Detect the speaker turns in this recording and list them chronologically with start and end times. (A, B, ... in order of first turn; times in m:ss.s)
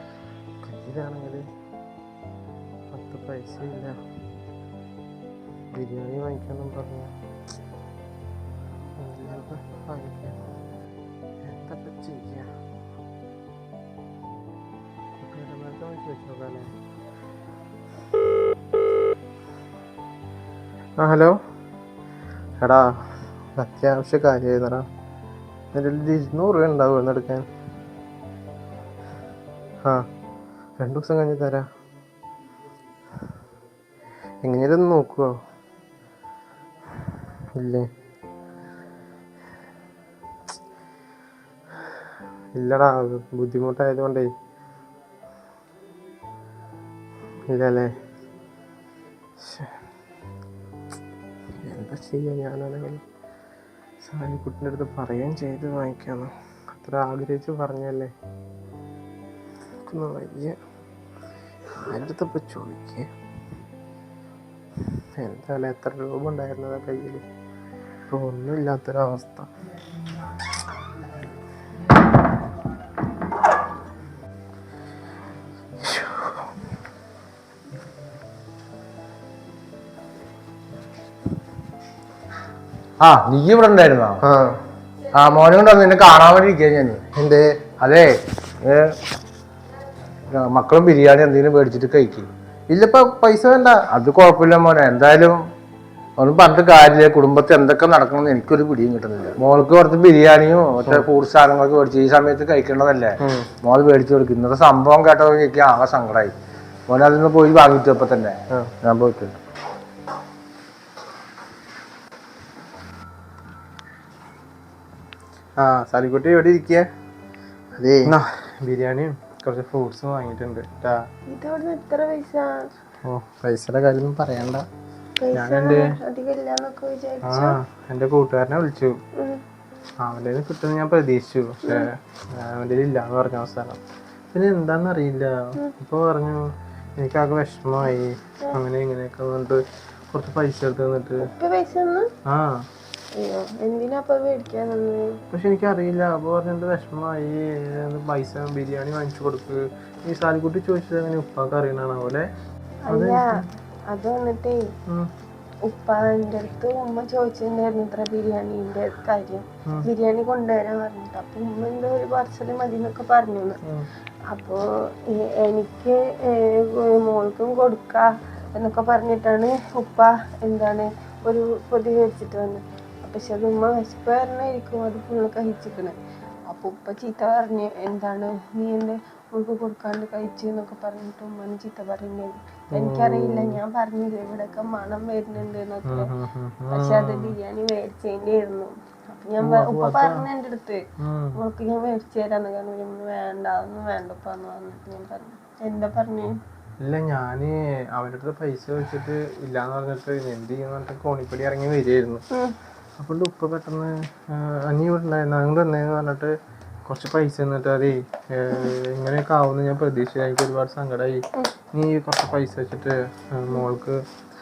0:00.6-0:01.5 A
0:02.9-0:04.0 A
0:05.7-0:07.1 A
0:09.0-0:10.5 A
0:11.4-0:12.5 A
0:15.2-0:16.7 A
0:21.0-0:21.4 A
0:22.6-0:23.0 A
0:23.6-0:24.8 A
0:25.7-0:27.5 A
0:30.8-0:31.7 A
0:34.4-0:35.3 A
0:37.6-0:37.9 A
0:42.5-0:44.3 A
0:47.5-0:47.9 A
0:49.4-0:49.7 A
0:51.6-0:53.0 A
0:54.0-0:58.1 A
0:59.8-1:00.6 A
1:01.8-1:03.1 A
1:05.2-1:07.2 A
1:08.1-1:09.5 A
1:15.8-1:16.3 A
1:23.0-1:24.2 B
1:24.2-1:24.5 A
1:25.1-1:27.0 B
1:27.2-1:27.6 A
1:27.8-1:29.0 B
1:30.3-1:32.3 B
1:32.7-1:33.8 A
1:33.9-1:35.4 B
1:36.2-1:46.3 B
1:43.2-1:43.5 A
1:46.9-1:49.4 B
1:55.6-1:56.8 A
1:57.8-2:01.0 A
2:01.3-2:02.7 C
2:03.0-2:04.6 A
2:05.2-2:07.6 C
2:05.3-2:05.9 A
2:07.2-2:09.0 A
2:09.2-2:09.4 C
2:10.0-2:13.8 A
2:14.3-2:21.3 A
2:21.2-2:22.1 C
2:22.3-2:22.6 A
2:23.1-2:25.2 C
2:25.3-2:32.3 A
2:32.8-2:34.6 C
2:32.9-2:33.4 A
2:35.6-2:43.6 C
2:44.3-2:56.0 C
2:56.5-3:06.1 C
3:02.7-3:03.6 A
3:05.8-3:07.3 A
3:06.7-3:10.8 C
3:09.4-3:10.2 A
3:11.0-3:11.4 A
3:11.3-3:16.4 C
3:16.8-3:22.2 A
3:23.0-3:26.3 A
3:26.9-3:34.0 A